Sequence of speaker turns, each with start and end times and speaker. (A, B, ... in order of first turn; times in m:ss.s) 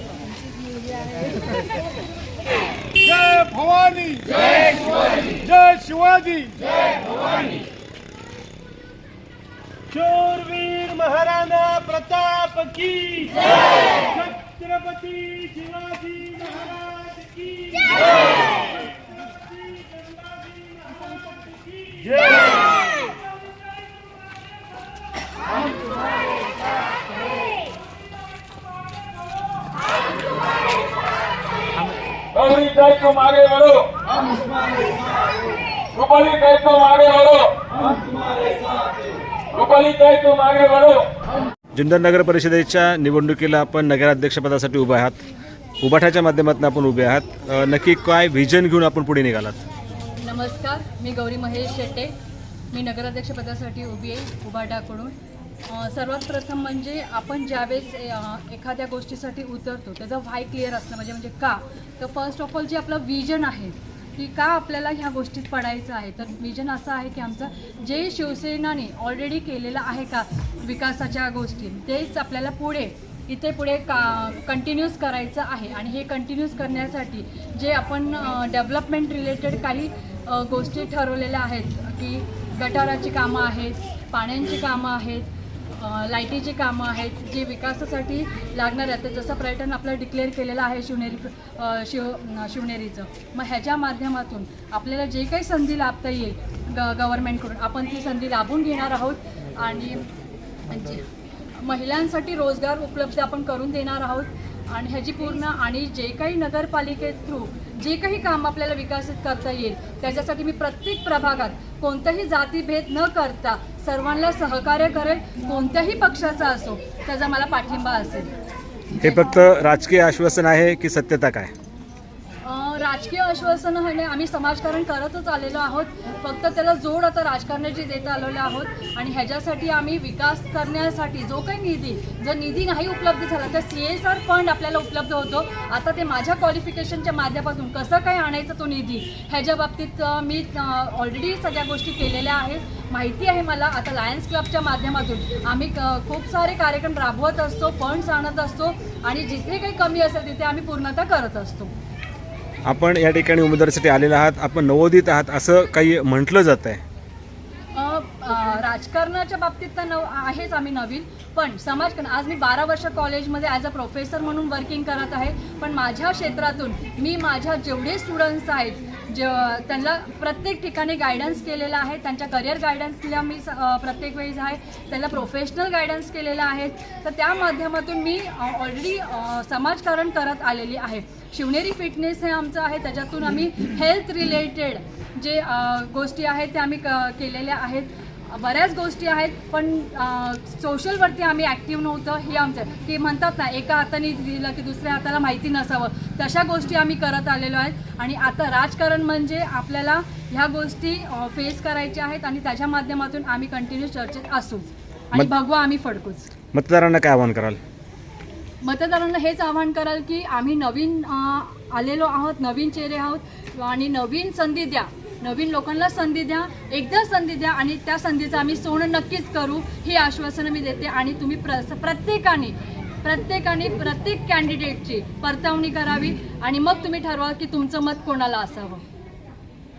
0:03.1-0:04.2 A
0:03.4-0:06.8 B
0:05.5-0:06.4 A
0:09.9-0:18.0 B
0:19.7-0:20.9 B
0:21.7-0:22.5 B
0:32.3-0:34.1 A
0:35.9-0:38.6 A
0:39.5-0:41.1 A
0:41.8-0:45.2 C
0:45.8-0:49.6 C
0:50.2-0:52.1 D
0:52.7-0:55.2 D
0:55.7-1:40.1 D
1:40.7-1:41.1 D
1:41.6-1:58.3 D
1:59.0-1:59.4 D
1:59.0-2:01.5 C
2:02.4-2:31.7 D
2:32.7-2:36.8 C
2:37.7-3:26.3 D
3:26.5-3:27.6 C
3:28.6-3:48.8 D